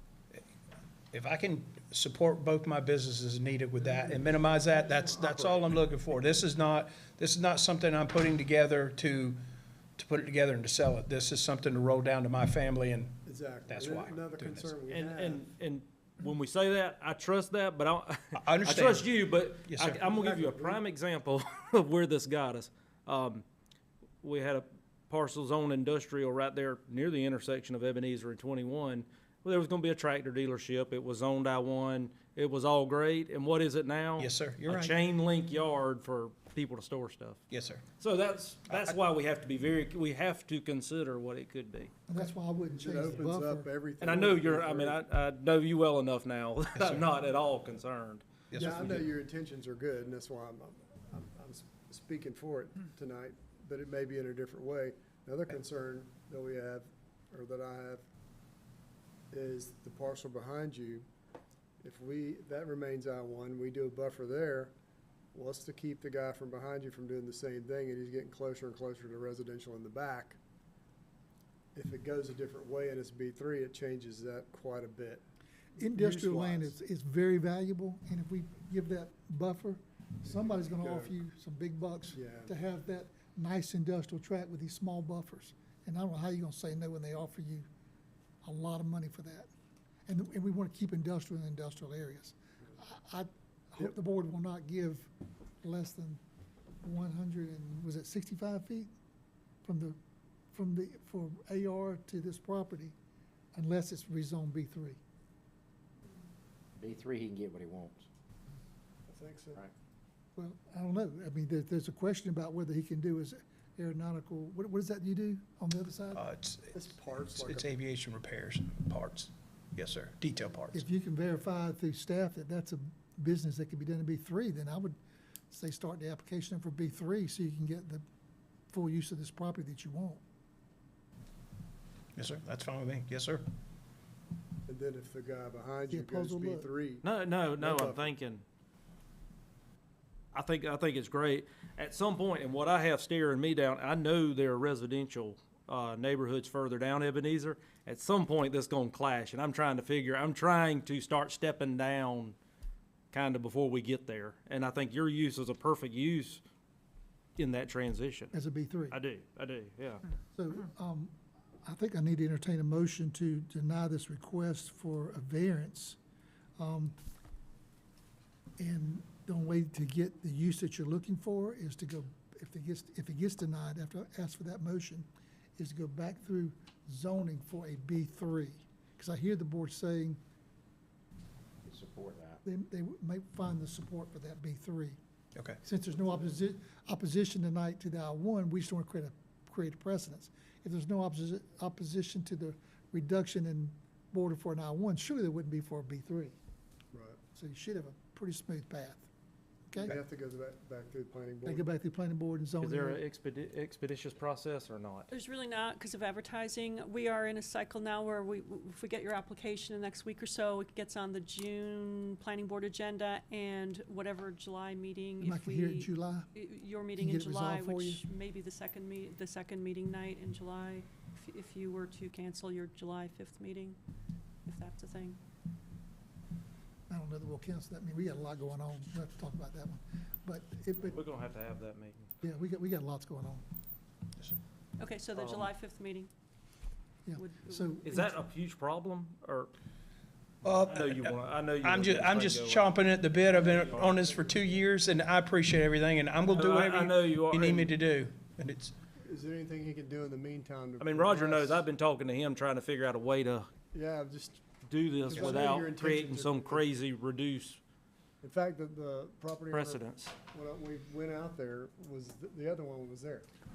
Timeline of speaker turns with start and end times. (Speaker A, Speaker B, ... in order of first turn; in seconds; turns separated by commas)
Speaker A: 1.1-9.4, Speaker A: 10.0-14.7, Speaker B: 13.2-15.5, Speaker C: 14.9-23.4, Speaker A: 18.4-19.1, Speaker A: 19.7-20.0, Speaker B: 20.0-20.8, Speaker C: 24.2-37.4, Speaker A: 34.2-35.0, Speaker A: 37.5-37.8, Speaker C: 38.0-41.9, Speaker A: 38.7-39.0, Speaker D: 42.1-43.7, Speaker B: 42.8-45.0, Speaker C: 44.0-48.3, Speaker A: 46.8-47.0, Speaker A: 48.5-49.0, Speaker B: 48.6-58.0, Speaker B: 59.3-61.0, Speaker B: 61.8-64.7, Speaker B: 65.3-70.4, Speaker B: 71.7-75.2, Speaker D: 75.8-87.7, Speaker B: 75.8-76.8, Speaker B: 80.3-81.1, Speaker B: 82.1-82.5, Speaker D: 88.4-89.5, Speaker D: 90.1-95.1, Speaker D: 95.6-96.2, Speaker D: 96.8-98.9, Speaker D: 99.6-100.0, Speaker D: 100.5-102.9, Speaker D: 103.5-105.0, Speaker E: 106.8-108.1, Speaker B: 109.1-109.6, Speaker D: 110.3-116.2, Speaker A: 116.1-120.8, Speaker B: 116.7-117.7, Speaker D: 120.7-125.0, Speaker D: 125.5-128.0, Speaker D: 128.7-130.2, Speaker A: 132.2-133.4, Speaker B: 134.7-137.0, Speaker D: 135.9-136.7, Speaker C: 137.0-138.4, Speaker B: 137.6-138.1, Speaker C: 140.3-152.3, Speaker C: 153.1-156.4, Speaker C: 157.4-158.3, Speaker D: 158.3-159.0, Speaker C: 158.9-160.0, Speaker D: 160.3-166.0, Speaker D: 166.6-166.9, Speaker D: 168.6-180.2, Speaker E: 181.7-182.4, Speaker D: 182.4-185.0, Speaker D: 185.6-196.3, Speaker B: 196.9-197.2, Speaker D: 197.3-199.1, Speaker D: 199.7-199.9, Speaker B: 199.8-201.7, Speaker D: 201.4-203.0, Speaker C: 202.6-205.1, Speaker F: 205.1-223.8, Speaker D: 215.2-216.3, Speaker D: 216.9-218.0, Speaker F: 224.4-225.2, Speaker D: 226.9-231.0, Speaker C: 230.8-232.1, Speaker D: 232.2-233.4, Speaker F: 234.8-236.1, Speaker C: 235.1-235.5, Speaker D: 237.1-238.2, Speaker F: 237.2-237.8, Speaker C: 237.8-239.5, Speaker A: 240.4-248.8, Speaker C: 240.7-242.7, Speaker B: 243.4-244.2, Speaker C: 243.4-243.9, Speaker C: 246.3-247.7, Speaker B: 248.9-251.6, Speaker C: 250.8-253.5, Speaker B: 253.7-254.5, Speaker C: 254.6-257.6, Speaker B: 255.0-256.7, Speaker B: 258.2-263.3, Speaker C: 259.5-260.1